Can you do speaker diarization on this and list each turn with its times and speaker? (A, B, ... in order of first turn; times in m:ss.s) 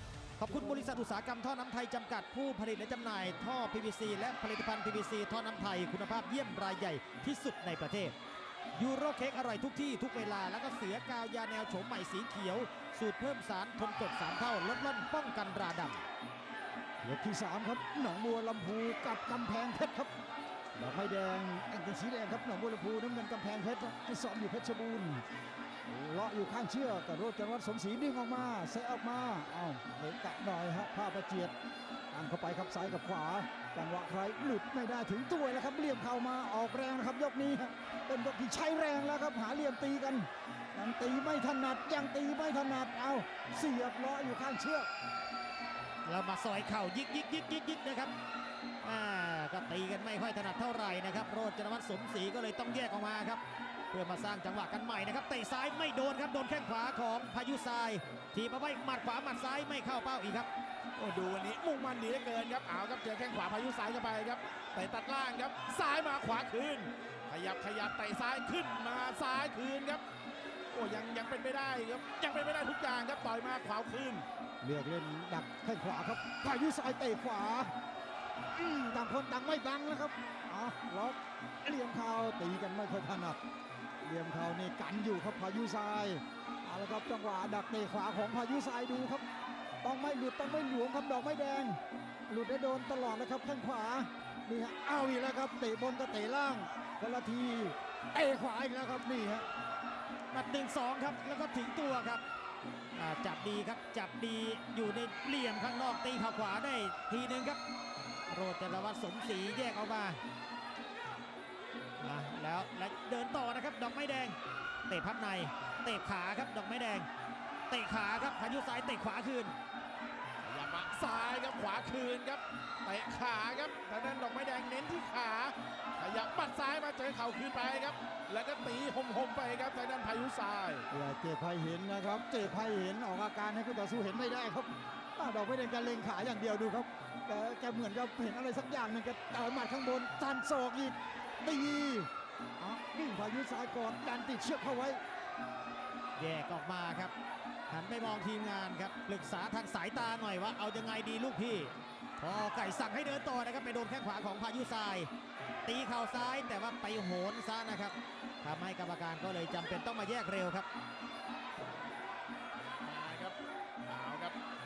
0:00.4-0:08.2 A
0:08.8-0:16.0 A
0:17.0-0:20.1 B
0:20.8-0:25.2 B
0:25.9-0:31.6 B
0:32.1-0:44.9 B
0:46.0-0:48.1 A
0:48.8-0:53.4 A
0:53.9-1:00.5 A
1:01.0-1:10.0 C
1:10.7-1:14.3 C
1:14.6-1:17.7 B
1:18.5-1:23.4 B
1:24.0-1:29.2 B
1:29.8-1:39.5 B
1:40.3-1:42.2 A
1:43.0-1:47.6 A
1:48.3-1:50.2 A
1:52.0-1:57.1 A
1:57.7-1:59.5 A
2:00.4-2:10.9 C
2:10.9-2:25.0 B
2:26.2-2:27.1 A
2:27.7-2:35.1 A
2:35.7-2:40.7 A
2:42.7-2:44.4 C